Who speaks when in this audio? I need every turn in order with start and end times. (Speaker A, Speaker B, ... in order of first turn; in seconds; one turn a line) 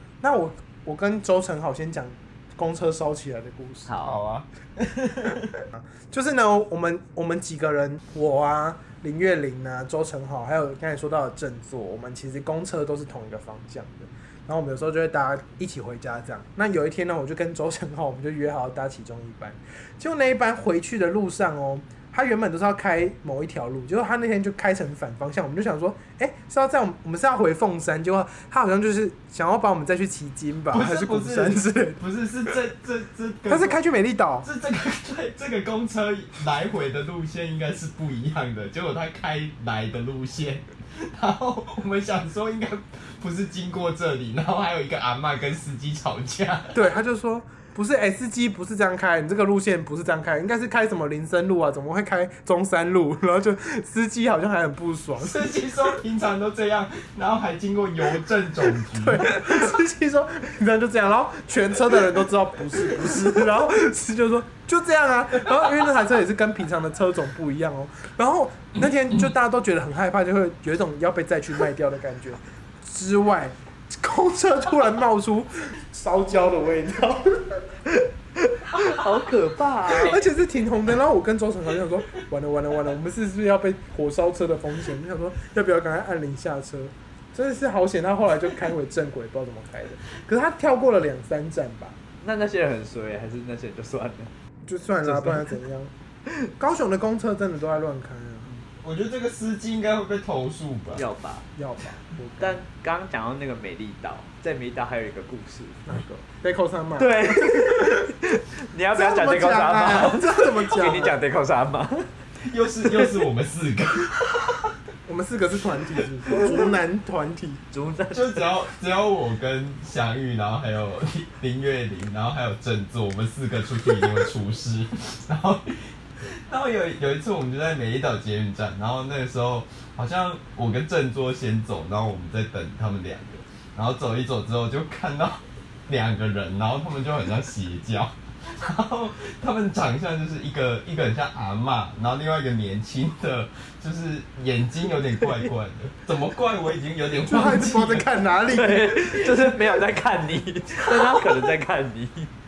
Speaker A: 0.2-3.9
Speaker B: 3.9-4.2
Speaker C: 4.0-5.6
Speaker A: 5.7-32.0
Speaker C: 30.7-33.8
Speaker A: 33.5-34.5
Speaker C: 34.4-46.9
Speaker A: 46.7-55.5
Speaker C: 55.2-59.5
Speaker A: 58.9-77.6
Speaker B: 78.5-80.2
Speaker A: 79.9-92.0
Speaker B: 92.2-94.3
Speaker A: 94.7-95.9
Speaker B: 95.0-95.5
Speaker A: 96.6-98.6
Speaker C: 98.8-101.0
Speaker B: 101.0-101.5
Speaker A: 101.6-102.6
Speaker B: 102.4-105.8
Speaker A: 105.9-108.1
Speaker B: 107.0-112.1
Speaker A: 108.9-111.2
Speaker C: 112.5-114.7
Speaker B: 112.9-113.2
Speaker A: 115.1-117.6
Speaker B: 117.7-118.5
Speaker C: 118.1-125.9
Speaker C: 126.5-148.1
Speaker A: 147.2-149.3
Speaker B: 148.5-152.3